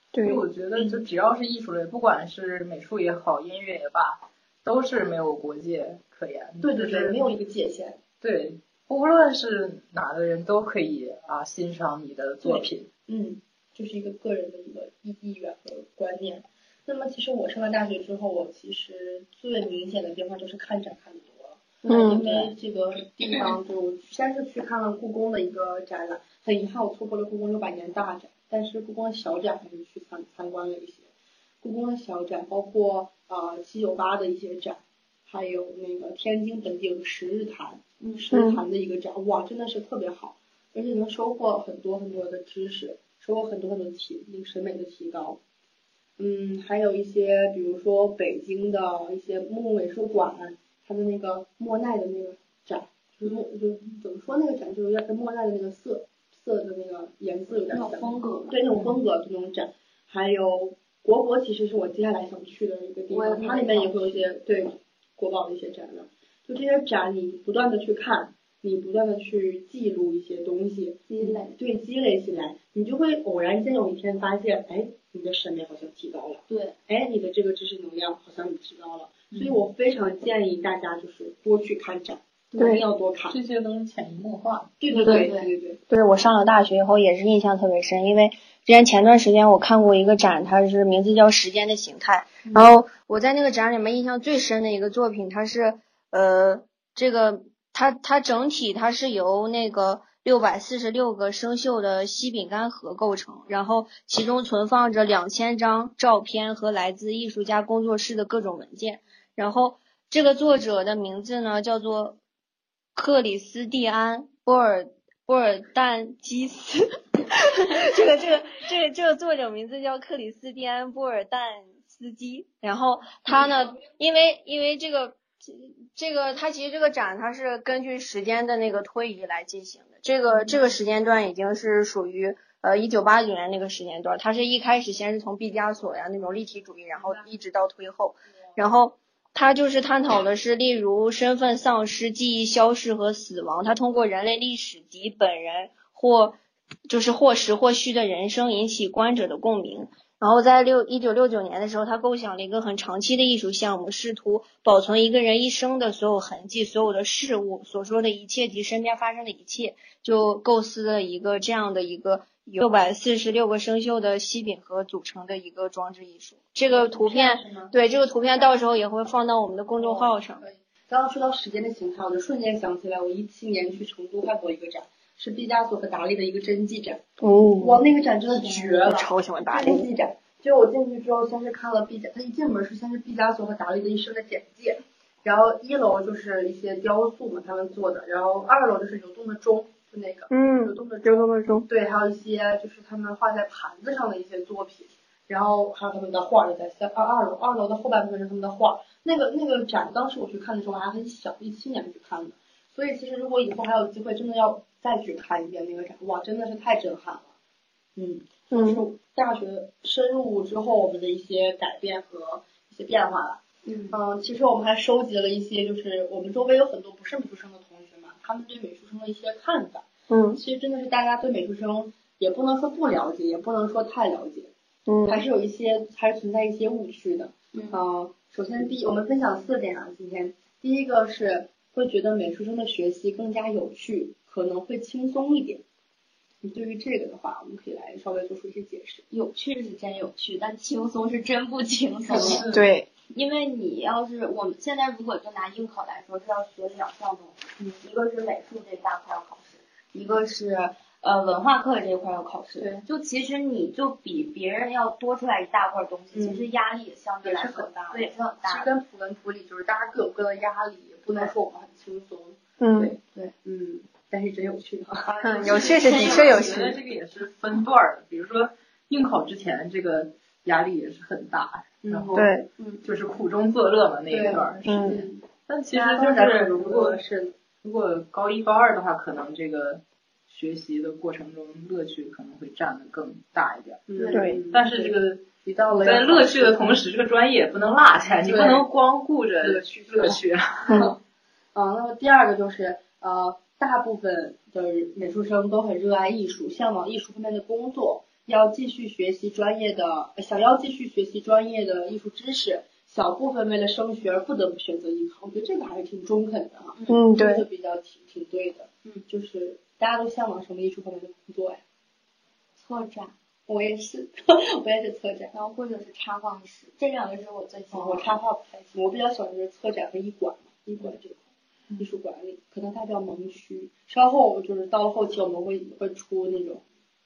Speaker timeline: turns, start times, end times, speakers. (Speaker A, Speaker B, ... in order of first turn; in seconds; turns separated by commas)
Speaker A: 0.1-0.4, Speaker B: 0.2-7.3, Speaker C: 6.6-8.0, Speaker B: 8.2-12.9, Speaker C: 12.4-31.1, Speaker A: 21.9-22.2, Speaker D: 22.1-22.4, Speaker C: 31.6-45.4, Speaker A: 38.3-38.6, Speaker C: 46.2-83.4, Speaker D: 57.7-58.6, Speaker B: 58.7-59.0, Speaker D: 63.1-64.3, Speaker D: 71.1-71.6, Speaker D: 76.5-76.8, Speaker D: 82.5-82.8, Speaker A: 82.6-82.8, Speaker B: 83.3-84.7, Speaker C: 84.8-85.8, Speaker D: 84.9-85.5, Speaker A: 85.9-112.2, Speaker A: 113.0-170.4, Speaker C: 166.7-167.7, Speaker C: 169.8-177.0, Speaker A: 177.2-177.8, Speaker C: 177.6-207.3, Speaker A: 178.4-179.9, Speaker A: 190.3-191.7, Speaker C: 208.0-213.4, Speaker A: 208.5-208.8, Speaker D: 213.6-214.0, Speaker C: 213.9-224.5, Speaker A: 220.1-220.4, Speaker A: 224.9-225.2, Speaker C: 225.1-235.6, Speaker D: 227.5-227.8, Speaker C: 236.4-239.0, Speaker D: 239.1-242.4, Speaker B: 242.1-242.7, Speaker C: 242.1-242.5, Speaker A: 242.5-242.9, Speaker D: 243.1-258.7, Speaker C: 252.6-252.8, Speaker C: 256.1-256.5, Speaker C: 257.2-266.7, Speaker A: 262.6-262.9, Speaker D: 265.1-266.6, Speaker A: 265.2-266.7, Speaker B: 265.8-272.3, Speaker C: 271.9-272.8, Speaker A: 272.1-272.5, Speaker B: 272.8-277.0, Speaker C: 274.1-275.2, Speaker A: 274.7-275.0, Speaker C: 275.7-277.4, Speaker B: 277.6-283.9, Speaker C: 283.9-286.8, Speaker D: 284.0-284.2, Speaker A: 284.1-284.4, Speaker B: 284.5-290.9, Speaker C: 288.2-288.7, Speaker C: 289.4-290.9, Speaker A: 290.7-290.9, Speaker C: 291.6-311.6, Speaker A: 306.9-307.5, Speaker D: 312.6-313.1, Speaker C: 313.5-315.3, Speaker D: 315.3-318.1, Speaker C: 317.7-321.2, Speaker C: 321.8-326.6